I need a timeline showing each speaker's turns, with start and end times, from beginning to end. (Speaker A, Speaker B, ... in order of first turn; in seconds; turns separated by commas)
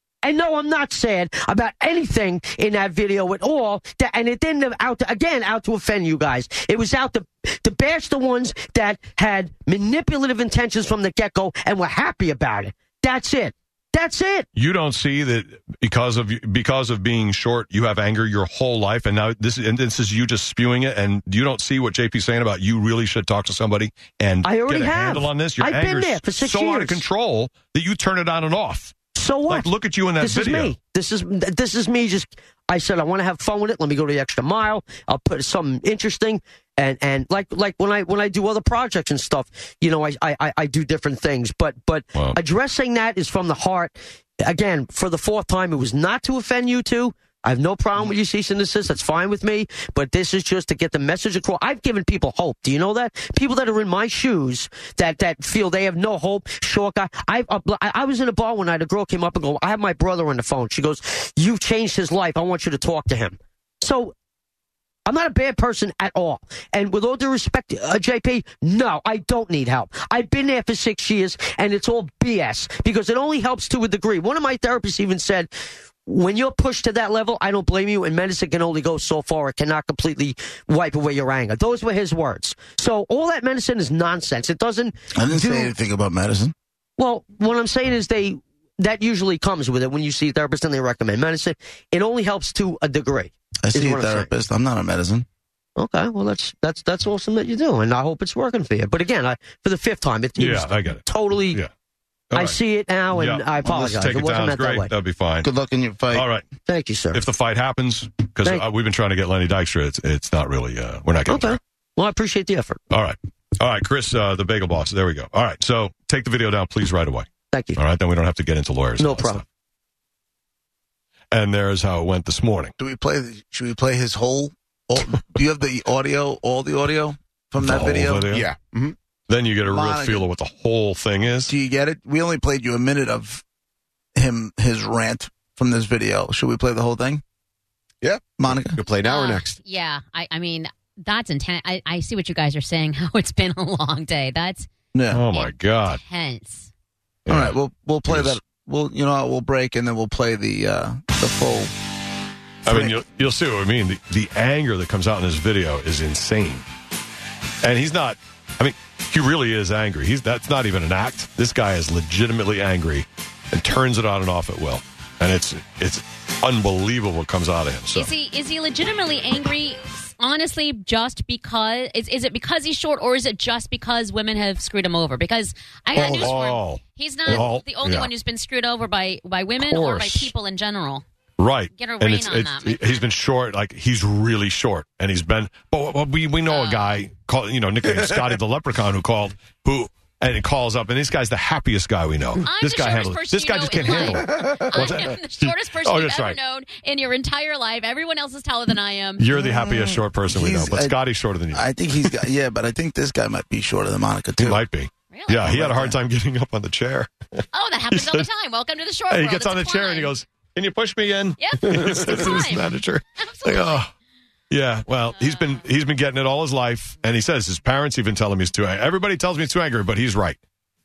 Speaker A: 0.2-14.5, Speaker B: 14.6-28.9, Speaker A: 24.4-27.0, Speaker A: 29.1-64.1, Speaker B: 29.5-30.7, Speaker A: 65.1-75.5, Speaker A: 76.1-85.7, Speaker C: 85.1-86.5, Speaker A: 87.0-94.3, Speaker C: 93.6-95.3, Speaker A: 95.8-101.6, Speaker B: 100.4-101.7, Speaker B: 102.3-102.6, Speaker A: 102.3-104.9, Speaker B: 103.1-105.5, Speaker C: 105.4-106.3, Speaker B: 106.1-106.5, Speaker A: 106.7-107.2, Speaker B: 107.1-111.6, Speaker A: 111.3-112.8, Speaker B: 112.9-117.3, Speaker A: 117.5-117.8, Speaker B: 117.8-119.4, Speaker A: 119.0-119.4, Speaker B: 121.3-122.7, Speaker C: 122.8-128.3, Speaker B: 127.6-128.5, Speaker D: 128.3-129.0, Speaker B: 129.3-131.5, Speaker C: 129.7-130.3, Speaker C: 131.5-133.4, Speaker C: 134.2-137.2, Speaker D: 138.0-139.6, Speaker C: 138.4-138.8, Speaker E: 139.0-144.7, Speaker C: 144.9-145.2, Speaker B: 145.1-146.0, Speaker E: 145.3-146.7, Speaker B: 147.3-147.6, Speaker C: 147.3-151.7, Speaker B: 148.1-148.4, Speaker B: 152.7-156.7, Speaker C: 152.7-152.9, Speaker B: 157.6-168.1, Speaker E: 167.9-181.0, Speaker B: 175.9-178.1, Speaker B: 179.6-180.3, Speaker B: 181.4-196.4, Speaker E: 181.8-183.1, Speaker E: 186.5-187.0, Speaker E: 192.4-199.3, Speaker B: 199.2-202.1, Speaker C: 199.3-201.0, Speaker C: 201.5-204.6, Speaker B: 204.4-208.3, Speaker E: 205.1-205.5, Speaker C: 205.4-206.0, Speaker E: 207.5-210.2, Speaker B: 209.1-213.9, Speaker E: 211.4-213.9, Speaker B: 214.5-220.4, Speaker E: 215.2-215.5